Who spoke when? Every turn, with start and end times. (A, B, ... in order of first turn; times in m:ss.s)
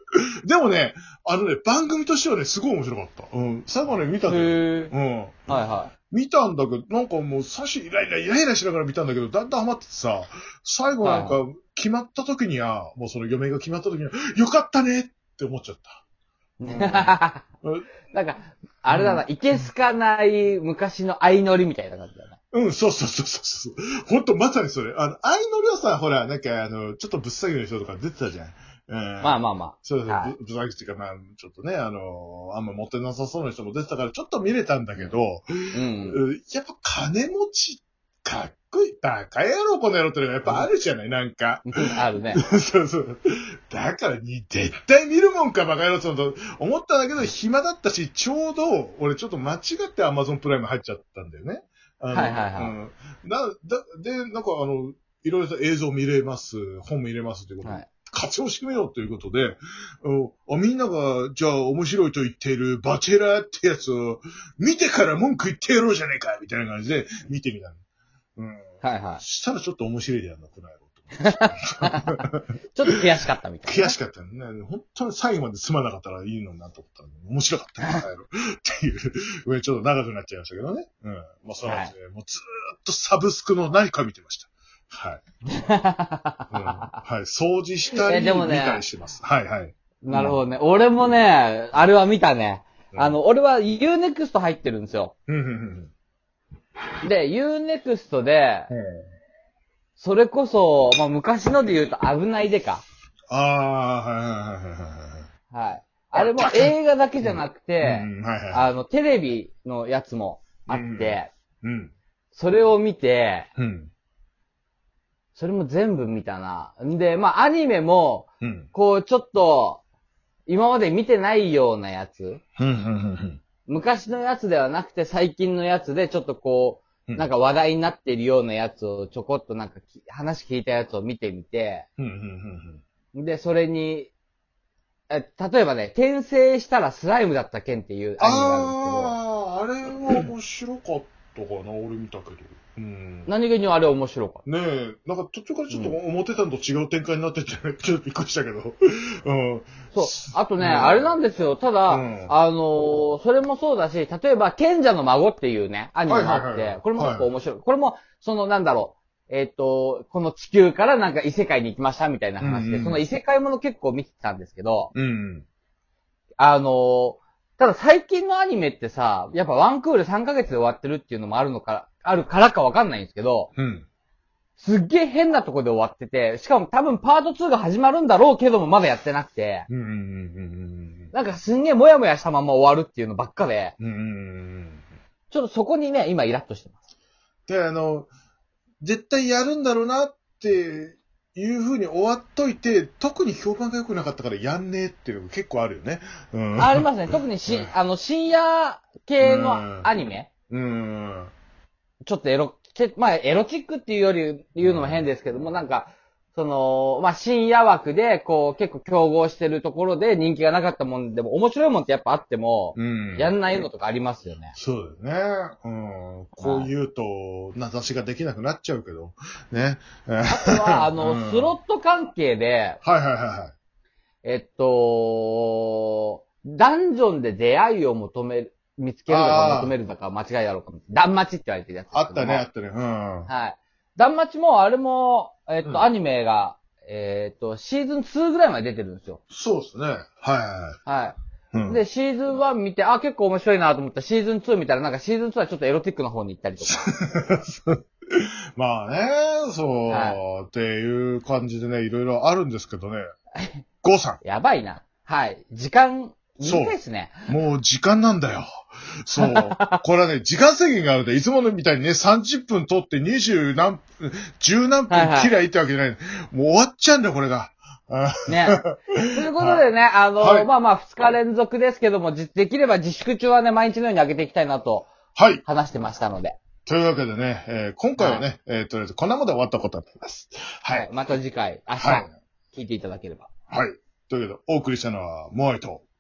0:00.4-0:05.5 A
0:04.3-0:04.9 B
0:05.5-0:05.9 B
0:06.1-0:16.0 A
0:11.0-0:11.4 B
0:16.6-0:17.4 B
0:16.6-0:17.9 A
0:18.1-0:22.4 B
0:18.9-0:19.7 A
0:22.5-0:41.7 A
0:29.2-0:30.3 B
0:35.7-0:36.2 B
0:41.7-0:42.4 B
0:42.3-1:07.8 A
0:52.1-0:52.7 B
1:08.4-1:12.5 A
1:08.8-1:09.2 B
1:11.2-1:12.2 B
1:12.7-1:14.0 B
1:13.7-1:25.2 A
1:21.6-1:21.9 B
1:25.5-1:26.9 B
1:26.5-1:30.4 A
1:28.0-1:28.8 B
1:30.0-1:35.1 B
1:32.9-1:33.2 A
1:35.3-1:35.9 A
1:37.0-1:38.7 B
1:38.7-1:39.1 A
1:40.0-1:42.8 B
1:43.3-1:45.3 A
1:45.5-1:51.3 B
1:46.2-1:48.7 A
1:50.7-1:51.9 A
1:52.4-1:53.5 B
1:53.6-1:53.9 A
1:55.4-1:59.8 B
1:58.4-1:58.7 A
2:00.5-2:02.4 B
2:02.6-2:03.4 A
2:03.7-2:11.9 B
2:12.0-2:12.8 A
2:13.2-2:14.1 B
2:15.1-2:19.2 B
2:18.2-2:23.3 A
2:23.3-2:24.4 B
2:24.4-2:31.1 A
2:25.7-2:26.0 B
2:29.9-2:44.9 B
2:31.9-2:32.3 A
2:36.1-2:37.3 A
2:42.4-2:43.0 A
2:44.9-2:45.4 A
2:46.4-2:53.5 B
2:53.6-2:53.9 A
2:54.6-2:59.7 B
2:59.7-3:01.1 A
3:01.1-3:03.8 B
3:03.8-3:04.8 A
3:05.3-3:06.8 B
3:07.5-3:08.1 A
3:08.8-3:16.9 A
3:16.6-3:20.3 B
3:17.5-3:17.7 A
3:19.2-3:19.9 A
3:20.5-3:21.3 A
3:22.0-3:34.6 B
3:24.6-3:25.1 A
3:32.8-3:33.3 A
3:34.5-3:41.6 A
3:36.4-3:36.7 B
3:40.3-3:42.8 B
3:42.8-3:43.5 A
3:44.2-3:52.5 B
3:49.1-3:49.8 A
3:51.9-3:53.3 A
3:53.3-3:59.2 B
3:59.3-4:00.8 A
4:00.9-4:06.9 B
4:01.5-4:01.8 A
4:06.6-4:13.0 A
4:09.9-4:10.2 B
4:13.8-4:14.2 A
4:14.2-4:17.3 B
4:16.4-4:18.5 A
4:19.0-4:29.6 A
4:19.2-4:19.8 B
4:24.9-4:25.3 B
4:28.3-4:28.6 B
4:29.1-4:34.9 B
4:30.2-4:30.5 A
4:35.1-4:35.4 A
4:35.4-4:36.4 B
4:36.6-4:40.9 A
4:38.0-4:38.2 B
4:40.7-4:43.3 B
4:41.8-4:42.1 A
4:43.5-4:45.8 A